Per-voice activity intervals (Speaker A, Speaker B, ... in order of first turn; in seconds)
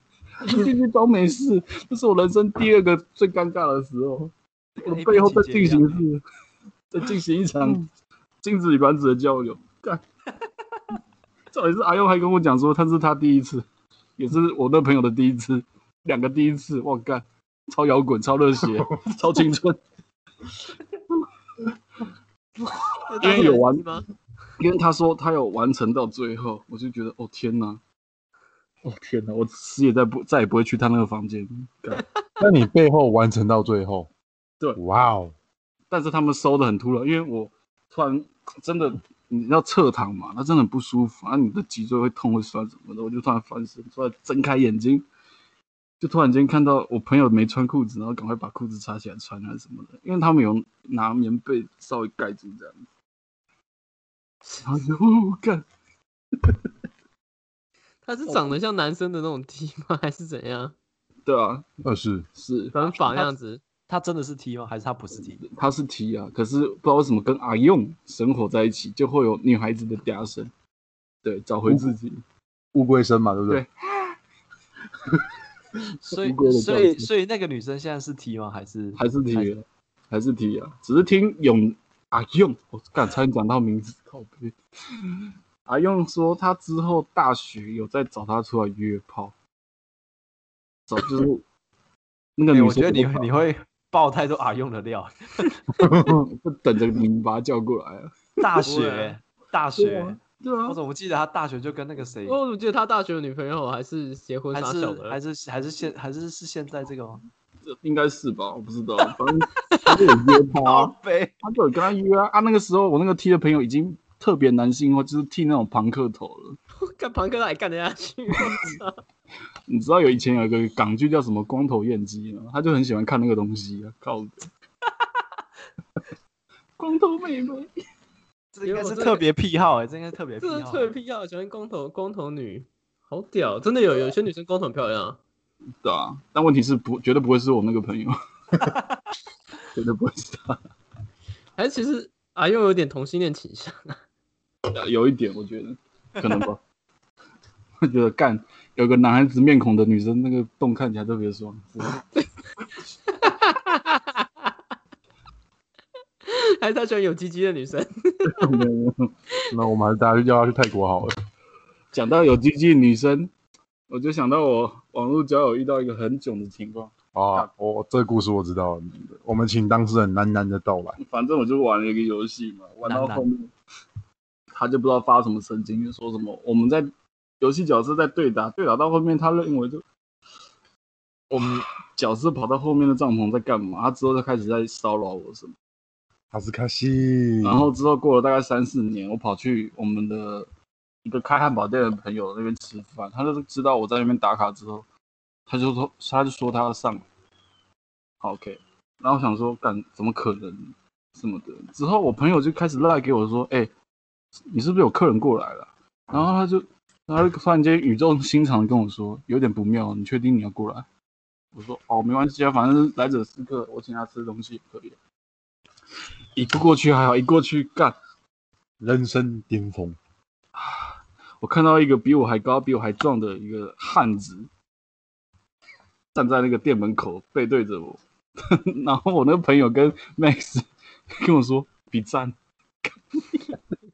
Speaker A: 0.4-6.2, 6.9-7.8, 8.4-10.0, 11.5-13.6, 14.2-19.8, 22.6-24.0, 24.6-27.8, 28.8-32.0, 35.9-45.0, 46.0-52.8, 54.6-55.6, 61.2-61.6, 62.4-62.7, 65.2-70.5, 71.2-72.2, 73.5-74.2, 76.0-77.1, 79.0-89.3, 90.9-91.4, 92.4-93.3, 95.8-98.8, 99.8-100.8, 107.7-116.6, 119.7-124.5, 126.8-127.7, 135.8-138.1, 139.7-140.6, 144.7-146.6, 147.8-152.0, 158.2-159.1, 161.9-163.3, 163.9-167.5, 171.0-173.5, 174.5-176.9, 177.4-179.8, 181.3-185.5, 187.4-190.5, 191.0-194.8, 195.5-197.0, 198.2-203.7, 204.5-210.8, 211.5-215.0, 216.3-217.9, 220.5-224.5, 226.1-232.3, 232.8-233.5
Speaker B: 4.8-6.0, 63.9-65.4, 76.0-79.5, 92.5-95.6, 98.4-102.3, 104.5-107.2, 110.6-111.3, 128.5-130.9, 172.8-173.2, 181.3-181.7
Speaker C: 23.1-24.0, 58.0-60.7, 62.7-63.6, 98.6-99.1, 102.2-105.2, 109.7-110.0, 116.8-119.0, 128.6-129.2, 130.4-135.2, 141.6-143.9, 153.1-154.3, 156.2-158.6
Speaker D: 32.4-34.1, 34.8-35.3, 61.8-62.3, 72.7-73.6, 95.8-96.2, 159.5-161.1, 167.1-171.0, 186.3-187.6, 218.8-220.0